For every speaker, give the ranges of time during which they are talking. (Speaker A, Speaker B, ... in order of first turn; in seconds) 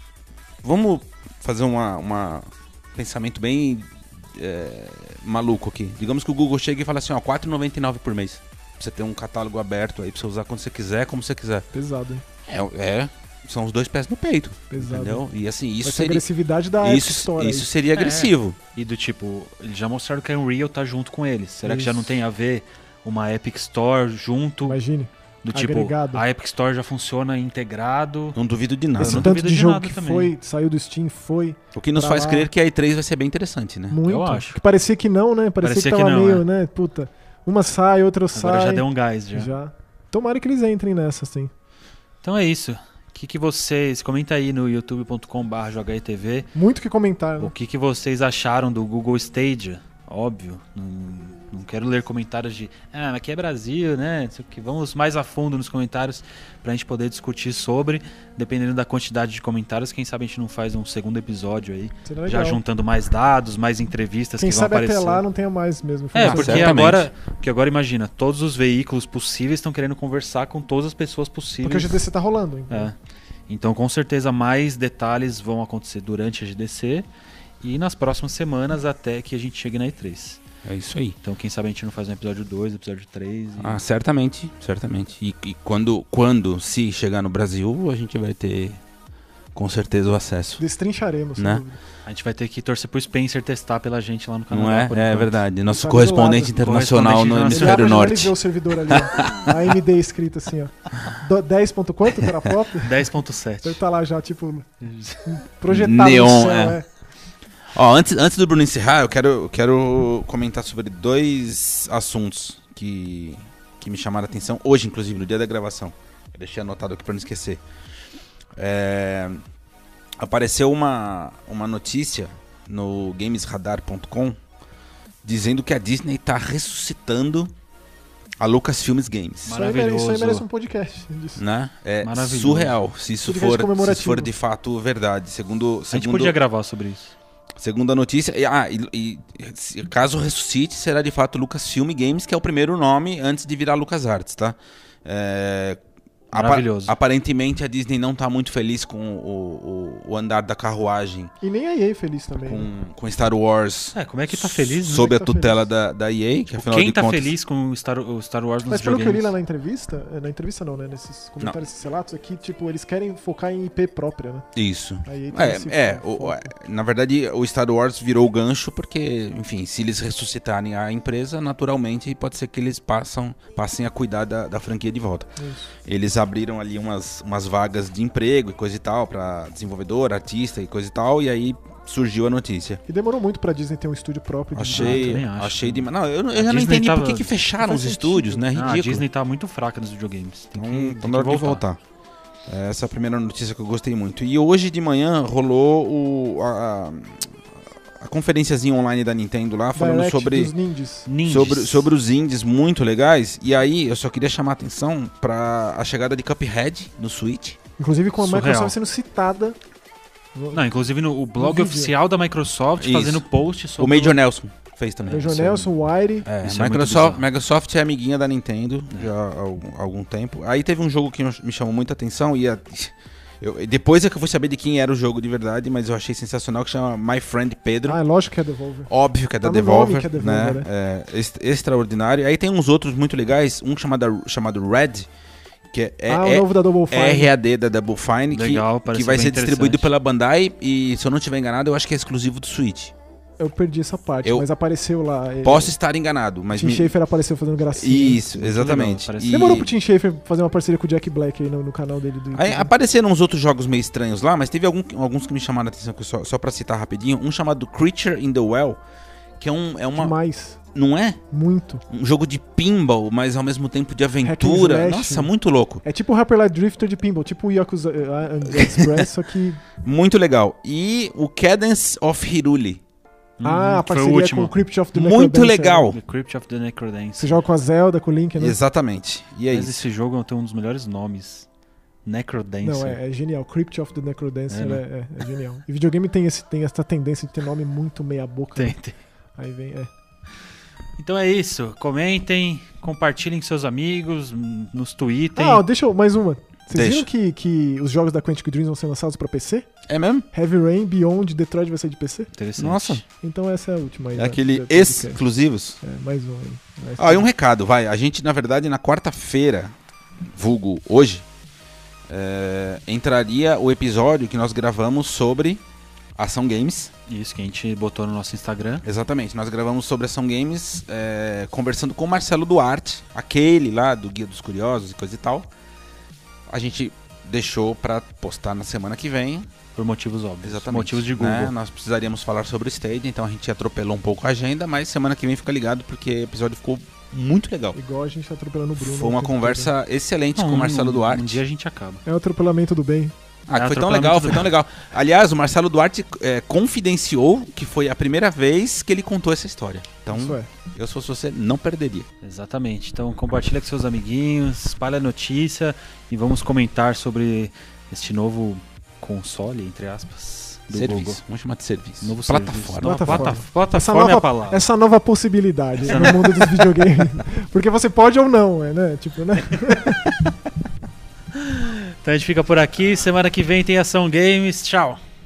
Speaker A: 0.6-11.7, 12.5-16.2, 16.8-18.6, 28.4-29.3, 31.8-34.0, 66.2-67.1, 80.7-81.2, 83.6-88.8, 89.5-90.6, 91.4-91.6, 94.5-98.4, 98.9-99.5, 105.7-106.8, 107.7-117.6, 118.6-119.4, 120.2-124.4, 125.2-127.5, 128.4-129.5, 131.4-136.4, 137.6-151.3, 152.4-157.3, 164.6-175.3, 175.8-182.8, 184.5-189.0, 190.5-191.8, 192.5-197.4, 198.0-200.5, 201.2-207.6, 212.8-213.2, 213.8-215.7, 216.2-228.0, 228.9-235.1, 235.7-242.9, 245.4-246.9, 247.7-249.7, 252.3-258.8, 259.4-260.1, 260.8-261.2, 261.9-265.8, 268.5-269.1, 269.8-272.8, 274.9-276.0, 278.4-279.7, 296.7-297.1, 299.9-300.3, 302.6-303.0, 304.1-305.8, 307.0-309.7, 310.3-311.3, 312.1-315.6, 316.2-316.9, 318.8-325.5, 326.5-329.5, 330.4-337.8, 338.8-341.4, 343.5-352.1, 360.7-363.3
Speaker B: 11.7-12.2, 14.7-15.2, 15.8-17.7, 21.6-22.2, 24.6-26.2, 29.0-32.5, 33.9-41.5, 46.5-47.5, 62.1-62.6, 64.4-66.9, 71.6-72.9, 90.6-91.8, 95.7-96.5, 97.5-103.1, 103.6-104.7, 105.2-106.9, 129.5-131.4, 133.2-134.3, 151.4-152.7, 154.9-155.6, 158.7-164.5, 165.1-166.5, 175.4-175.7, 182.9-185.2, 187.6-188.5, 199.8-201.1, 207.8-209.6, 210.3-210.6, 211.4-211.9, 215.1-216.3, 227.8-230.7, 236.1-237.3, 243.4-245.8, 246.5-248.3, 249.2-252.7, 260.0-260.6, 261.3-261.8, 264.2-265.3, 265.8-269.6, 273.4-275.9, 277.2-278.6, 282.6-288.8, 289.4-289.9, 295.4-299.7, 300.3-302.3, 303.2-305.2, 305.8-307.3, 337.8-339.7, 342.1-343.1, 350.1-350.5, 362.8-370.2
Speaker C: 17.9-24.8, 25.4-28.4, 29.0-30.3, 34.0-34.6, 35.6-36.5, 38.3-39.5, 42.2-46.5, 47.4-65.2, 66.1-72.0, 72.7-73.0, 73.5-77.1, 77.6-80.4, 81.2-83.8, 92.1-95.4, 96.5-98.0, 102.8-103.8, 104.8-105.3, 129.4-130.4, 132.0-132.8, 135.9-137.2, 146.3-146.9, 153.9-155.1, 156.6-159.3, 184.7-187.4, 188.5-191.6, 201.1-201.9, 208.2-208.8, 210.5-214.2, 216.3-217.3, 238.3-239.9, 248.3-249.6, 273.4-274.5, 275.9-277.4, 279.5-281.5, 282.1-283.0, 284.5-284.8, 288.6-289.0, 291.0-295.6, 302.4-303.0, 317.1-318.9, 329.8-331.5, 340.4-342.0, 343.6-344.5, 352.2-361.2, 362.0-364.6, 365.8-366.7, 371.3-375.0